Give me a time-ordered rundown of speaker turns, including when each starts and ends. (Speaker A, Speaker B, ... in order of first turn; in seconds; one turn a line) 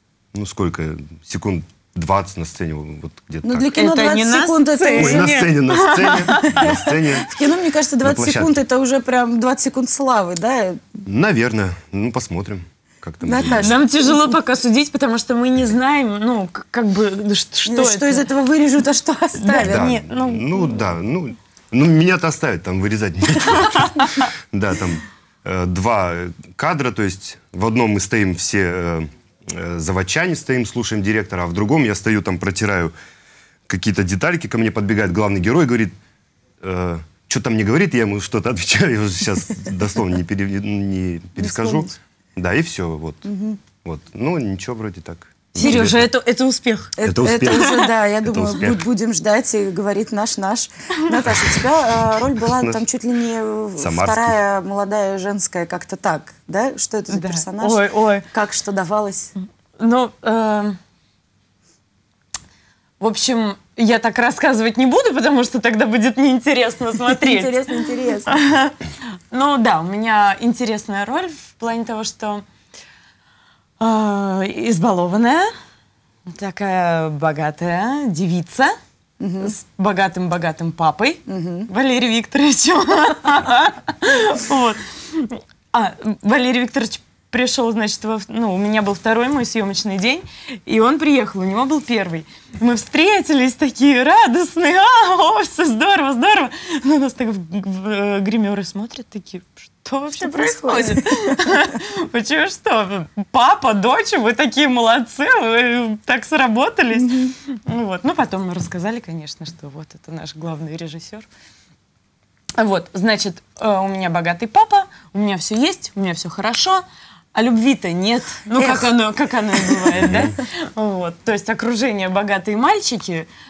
Speaker A: 0.3-3.7
Speaker B: 3.4-5.4
Speaker C: 3.7-6.9
Speaker A: 4.9-7.3
Speaker B: 6.4-11.0
Speaker A: 8.0-8.6
Speaker A: 11.0-13.8
Speaker B: 13.2-14.3
Speaker C: 13.5-18.2
Speaker B: 17.7-19.9
Speaker C: 19.4-20.8
Speaker A: 19.6-32.9
Speaker A: 33.7-35.9
Speaker A: 36.6-43.3
Speaker B: 41.4-41.9
Speaker B: 43.2-43.6
Speaker A: 43.8-46.1
Speaker C: 45.5-47.0
Speaker B: 45.6-45.9
Speaker B: 47.0-59.3
Speaker A: 47.0-48.8
Speaker C: 47.5-47.9
Speaker A: 52.5-52.8
Speaker A: 53.8-54.4
Speaker C: 57.1-58.3
Speaker C: 59.8-60.8
Speaker C: 63.0-68.8
Speaker B: 67.1-68.4
Speaker C: 69.3-72.5
Speaker C: 73.8-75.5
Speaker C: 76.3-78.8
Speaker B: 79.2-79.5
Speaker C: 79.4-111.3
Speaker B: 81.3-81.7
Speaker B: 100.2-101.4
Speaker B: 107.0-107.3
Speaker C: 112.6-116.8
Speaker C: 117.3-123.3
Speaker B: 118.6-119.0
Speaker B: 119.5-120.1
Speaker A: 120.0-120.3